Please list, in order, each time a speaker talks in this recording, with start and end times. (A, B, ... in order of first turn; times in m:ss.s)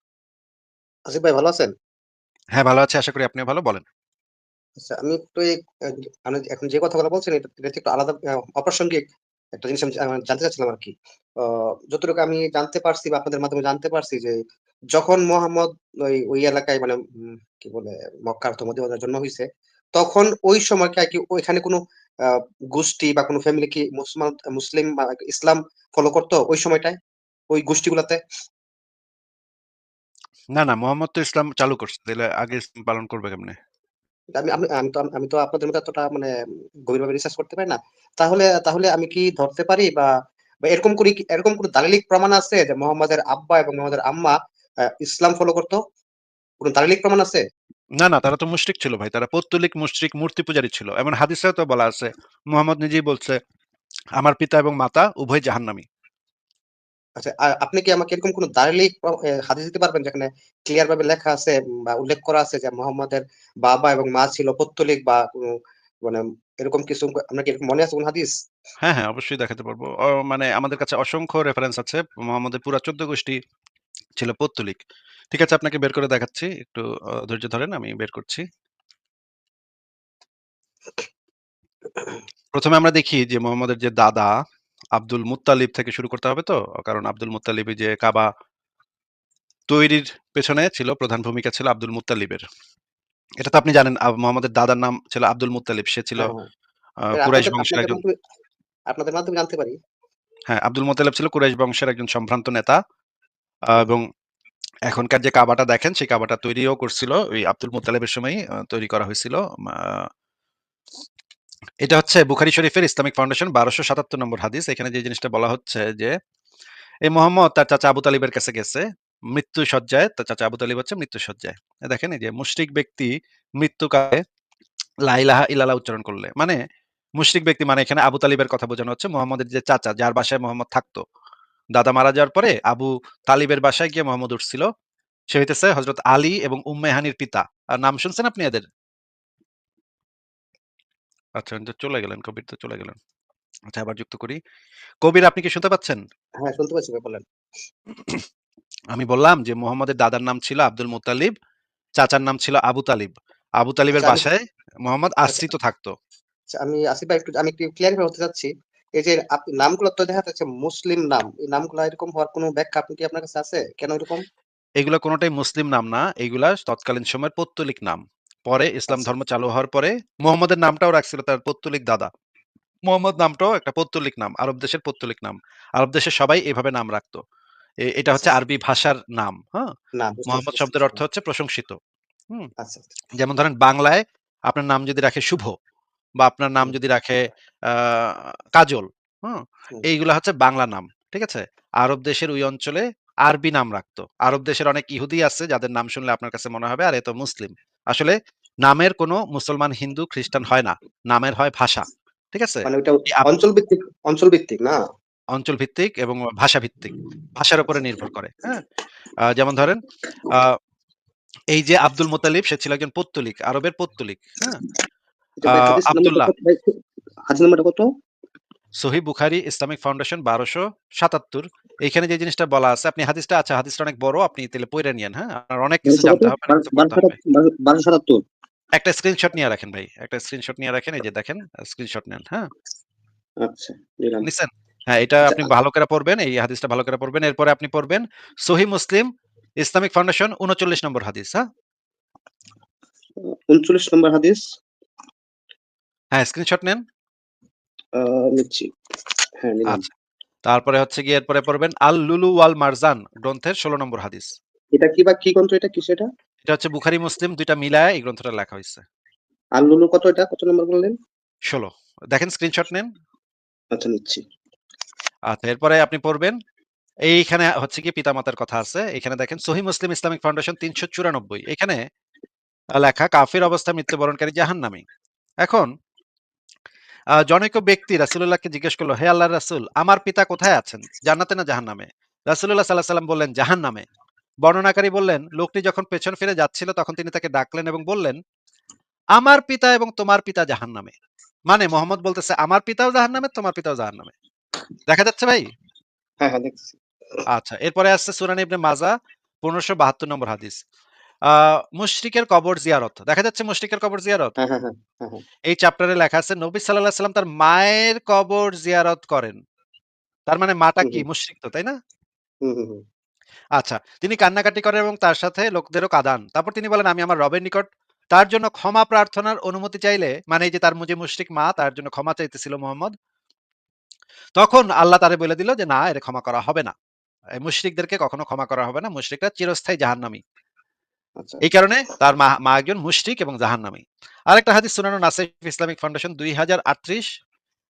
0:01.1-0:01.7 A
0:02.5-0:03.8 B
0:04.8-0:09.0 A
0:09.5-0:14.4 A
0:14.9-0:27.0 A
0:27.5-0:28.2 A
0:30.6-0:33.6 B
0:34.3-0:36.3 A
0:36.9-0:40.1 A
0:40.6-0:45.8 A
0:46.6-0:47.4 A
0:48.0-0:53.4 B
0:54.2-0:55.8 B
0:57.2-1:08.4 A
1:08.8-1:13.4 B
1:14.2-1:14.8 B
1:15.3-1:18.4 B
1:22.5-1:24.3 B
1:25.0-1:28.3 B
1:29.7-1:32.4 B
1:33.4-1:36.3 B
1:36.2-1:36.5 A
1:37.0-1:38.0 B
1:37.1-1:38.1 A
1:38.9-1:39.8 A
1:40.5-1:42.8 B
1:43.7-1:44.1 B
1:44.9-1:50.0 B
1:51.8-1:56.2 B
1:57.1-2:04.2 B
2:05.1-2:06.6 B
2:07.2-2:11.0 B
2:11.7-2:14.6 B
2:15.3-2:18.6 B
2:21.4-2:23.0 B
2:23.7-2:24.4 B
2:25.0-2:26.0 B
2:26.4-2:27.2 A
2:28.9-2:31.3 B
2:32.0-2:35.9 B
2:33.9-2:34.2 A
2:36.5-2:44.2 A
2:44.8-2:52.1 B
2:52.9-2:57.2 B
2:57.9-2:59.7 B
3:00.0-3:01.0 A
3:00.3-3:01.8 B
3:02.6-3:02.8 A
3:03.2-3:05.5 B
3:06.2-3:23.3 B
3:22.6-3:24.8 A
3:25.3-3:28.6 B
3:29.3-3:30.5 B
3:31.5-3:34.6 B
3:35.4-3:37.9 A
3:35.5-3:36.3 B
3:38.8-3:47.2 B
3:45.9-3:48.2 A
3:48.8-3:52.5 B
3:53.4-3:54.3 A
3:54.2-3:59.1 B
3:59.6-4:01.4 B
4:03.2-4:04.4 A
4:06.1-4:06.8 B
4:07.9-4:08.7 A
4:09.4-4:09.8 A
4:10.4-4:14.3 B
4:14.7-4:16.1 A
4:16.4-4:18.8 B
4:19.6-4:21.0 A
4:21.5-4:22.9 B
4:23.7-4:24.2 A
4:25.3-4:26.4 B
4:27.1-4:31.8 B
4:32.8-4:34.8 B
4:35.4-4:35.7 B
4:37.2-4:43.8 B
4:44.4-4:48.2 B
4:49.2-4:50.9 B
4:51.5-4:54.1 B
4:54.9-4:55.5 B
4:56.2-4:57.2 A
4:57.3-5:00.6 B
5:01.2-5:04.3 B
5:04.4-5:05.2 A
5:05.5-5:09.4 B
5:10.3-5:11.8 B
5:12.4-5:12.8 A
5:13.6-5:22.9 B
5:24.4-5:26.7 B
5:27.4-5:30.2 B
5:31.4-5:37.0 B